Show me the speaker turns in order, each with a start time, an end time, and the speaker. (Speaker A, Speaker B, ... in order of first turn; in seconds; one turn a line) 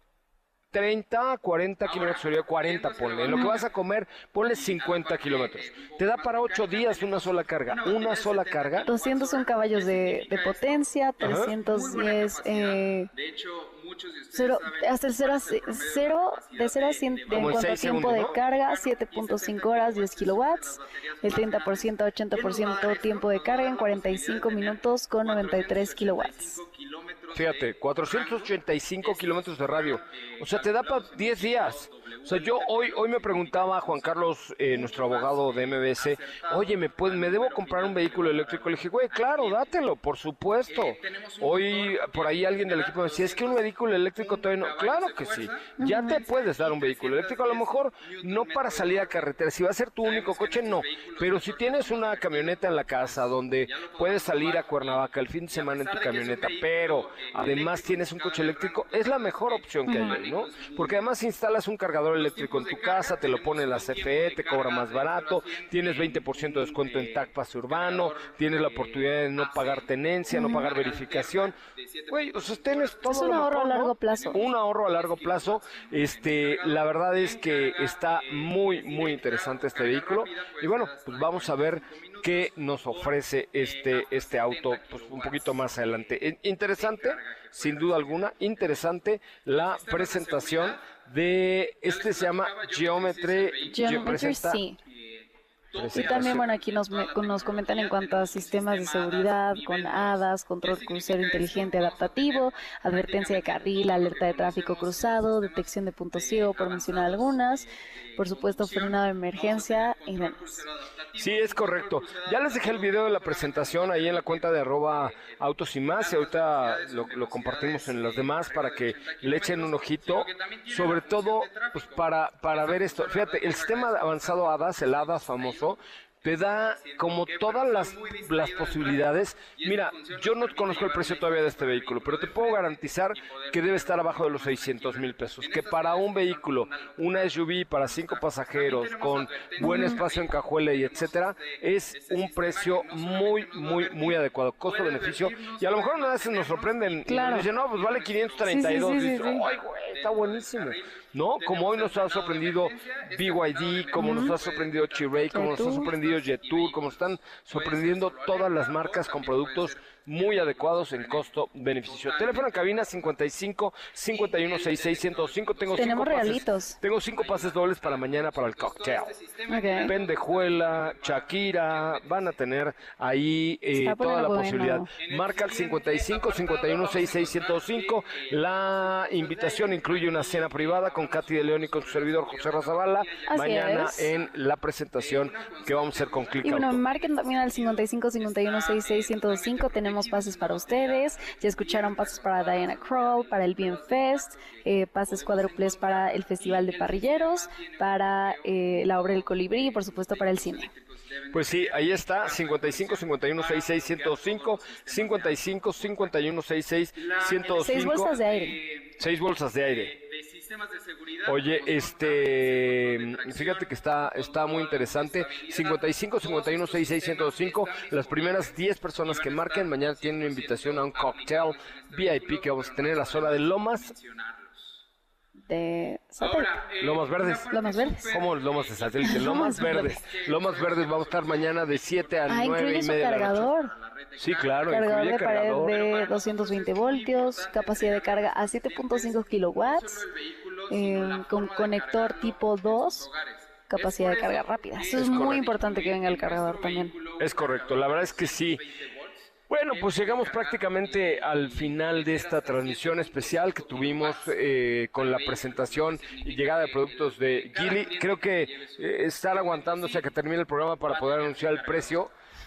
Speaker A: 0.7-8.9
Speaker B: 1.8-3.7
Speaker C: 3.3-3.5
Speaker B: 4.5-39.9
Speaker C: 8.9-13.1
Speaker A: 11.2-11.5
Speaker C: 14.3-26.6
Speaker A: 17.3-18.4
Speaker A: 27.3-71.6
Speaker B: 40.6-49.3
Speaker C: 45.8-46.2
Speaker B: 50.0-61.1
Speaker C: 59.9-60.2
Speaker B: 62.1-88.7
Speaker C: 70.3-70.7
Speaker A: 72.1-94.6
Speaker C: 73.1-74.4
Speaker B: 89.5-90.9
Speaker B: 91.8-94.2
Speaker C: 93.7-94.8
Speaker B: 94.8-163.2
Speaker A: 95.7-96.5
Speaker C: 95.9-110.6
Speaker A: 111.2-169.1
Speaker C: 139.6-140.0
Speaker C: 147.1-147.5
Speaker C: 148.4-149.4
Speaker C: 154.0-154.4
Speaker C: 155.3-155.9
Speaker B: 164.0-172.5
Speaker C: 165.8-166.8
Speaker C: 169.5-169.9
Speaker A: 169.8-186.8
Speaker C: 173.7-174.9
Speaker B: 174.9-184.4
Speaker C: 183.3-184.1
Speaker B: 184.9-206.2
Speaker C: 186.4-200.7
Speaker A: 201.3-208.1
Speaker B: 206.9-209.1
Speaker C: 207.6-208.6
Speaker A: 209.0-210.0
Speaker B: 209.6-224.8
Speaker A: 211.2-223.9
Speaker C: 225.5-226.6
Speaker B: 226.2-260.2
Speaker A: 226.8-233.5
Speaker C: 227.5-228.0
Speaker C: 229.1-230.0
Speaker C: 232.3-233.7
Speaker A: 234.2-235.8
Speaker C: 234.7-240.1
Speaker C: 240.7-243.1
Speaker C: 243.7-246.9
Speaker A: 244.9-245.5
Speaker A: 247.2-248.6
Speaker A: 249.5-262.1
Speaker B: 260.8-262.1